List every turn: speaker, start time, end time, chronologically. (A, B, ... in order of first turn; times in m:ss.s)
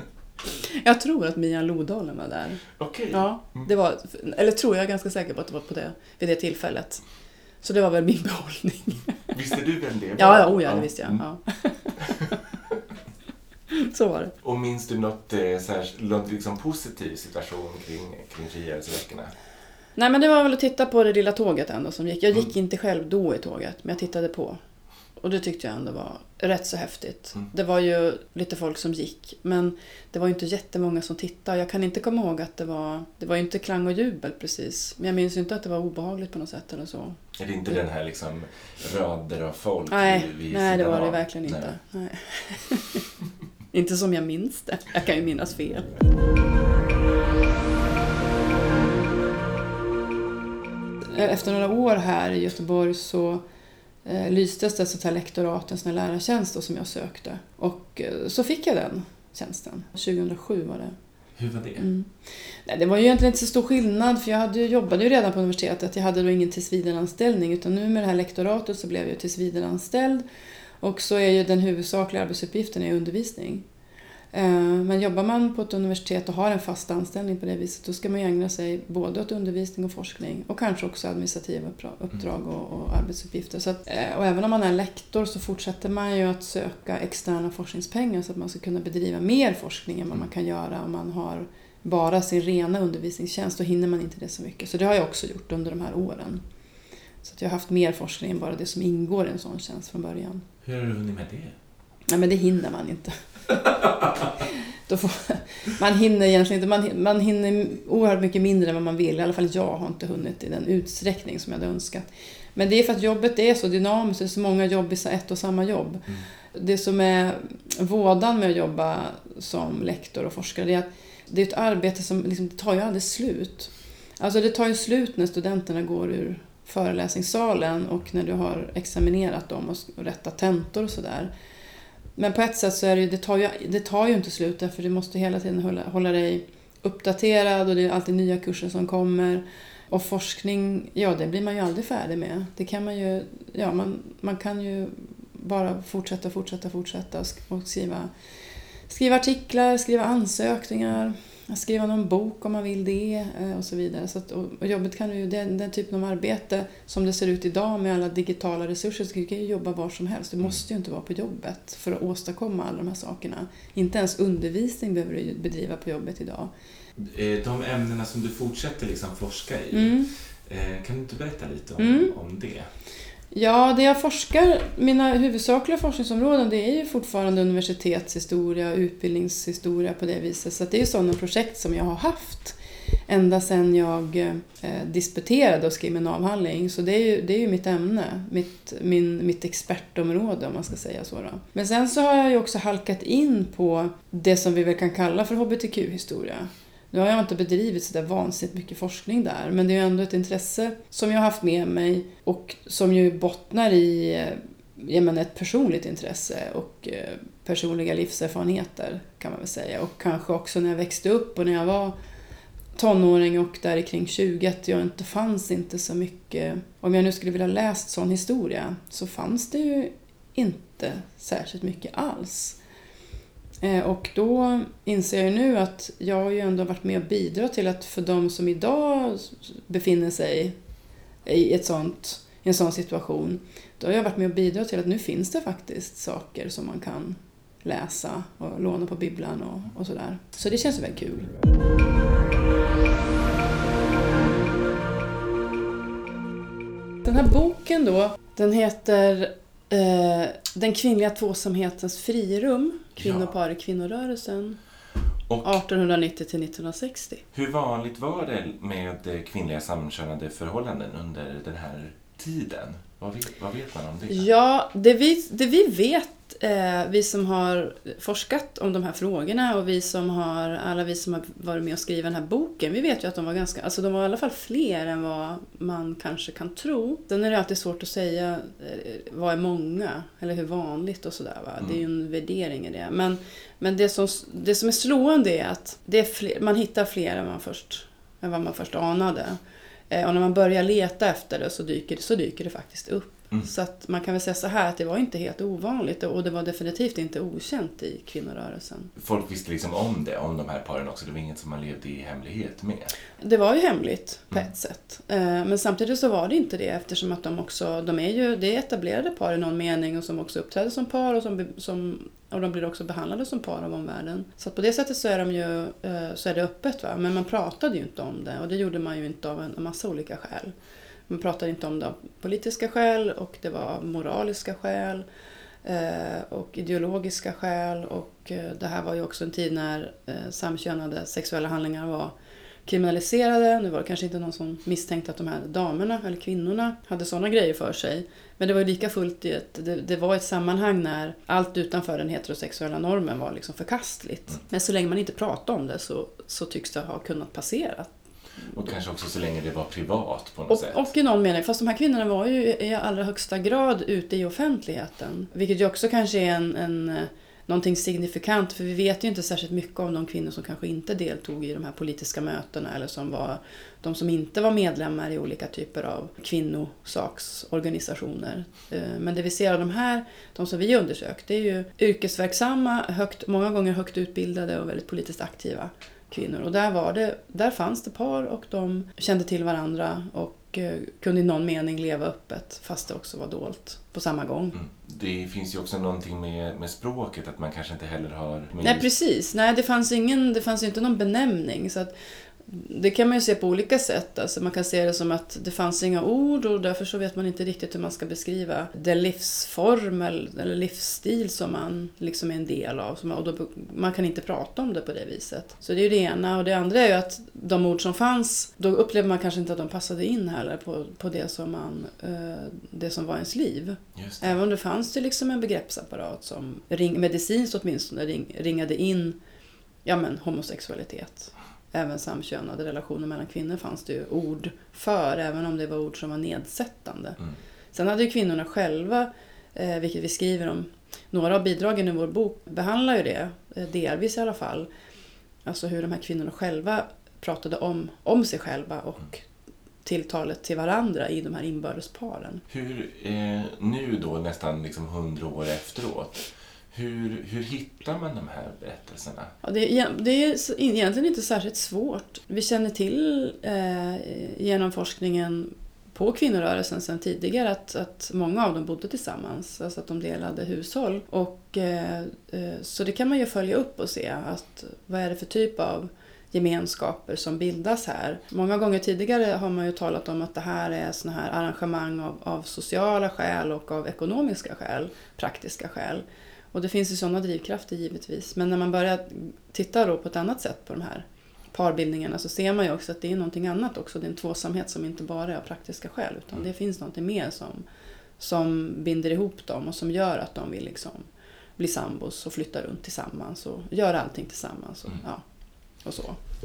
0:00.5-0:07.0 A
0:02.8-0:03.7 B
0:07.6-0:09.3 A
0:09.3-0:11.2 B
0:10.2-0:12.0 A
0:12.0-0:12.8 B
0:13.7-0:14.3 A
0:14.4-0:19.3 B
0:20.0-0:24.6 A
0:25.2-0:37.8 A
0:37.4-0:41.7 B
0:39.9-0:43.1 A
0:43.7-0:45.9 A
0:51.1-0:53.4 A
0:54.0-1:01.0 A
1:01.4-1:01.9 B
1:01.8-1:10.2 A
1:10.8-1:13.6 A
1:14.3-1:36.4 A
1:37.2-1:40.4 A
1:40.6-1:41.6 B
1:42.1-1:43.1 A
1:43.7-1:44.3 B
1:44.9-1:52.0 A
1:52.6-2:11.3 A
2:12.2-2:28.1 A
2:28.9-2:46.5 A
2:47.0-2:52.7 B
2:49.7-2:50.1 A
2:51.8-2:52.1 A
2:53.3-3:02.6 A
3:03.1-3:32.0 A
3:32.8-3:42.6 A
3:43.6-3:50.5 A
3:51.2-4:01.3 A
4:07.0-4:14.6 A
4:13.0-4:13.3 B
4:15.3-4:15.6 B
4:15.4-4:17.2 A
4:17.3-4:24.3 B
4:24.1-4:49.4 A
4:49.9-4:58.9 A
4:59.0-5:02.9 B
5:03.2-5:20.5 A
5:21.1-5:25.0 A
5:25.6-5:32.1 A
5:32.7-5:47.9 A
5:48.5-5:50.9 B
5:50.5-6:24.6 A
6:24.5-6:28.9 B
6:28.6-6:31.9 A
6:32.4-6:59.2 A
6:54.0-6:54.4 B
6:59.8-7:07.2 A
7:07.7-7:14.7 A
7:15.4-7:19.3 A
7:19.8-7:22.4 A
7:22.5-7:29.3 B
7:29.4-8:07.6 A
8:08.2-8:15.2 A
8:15.8-8:16.2 A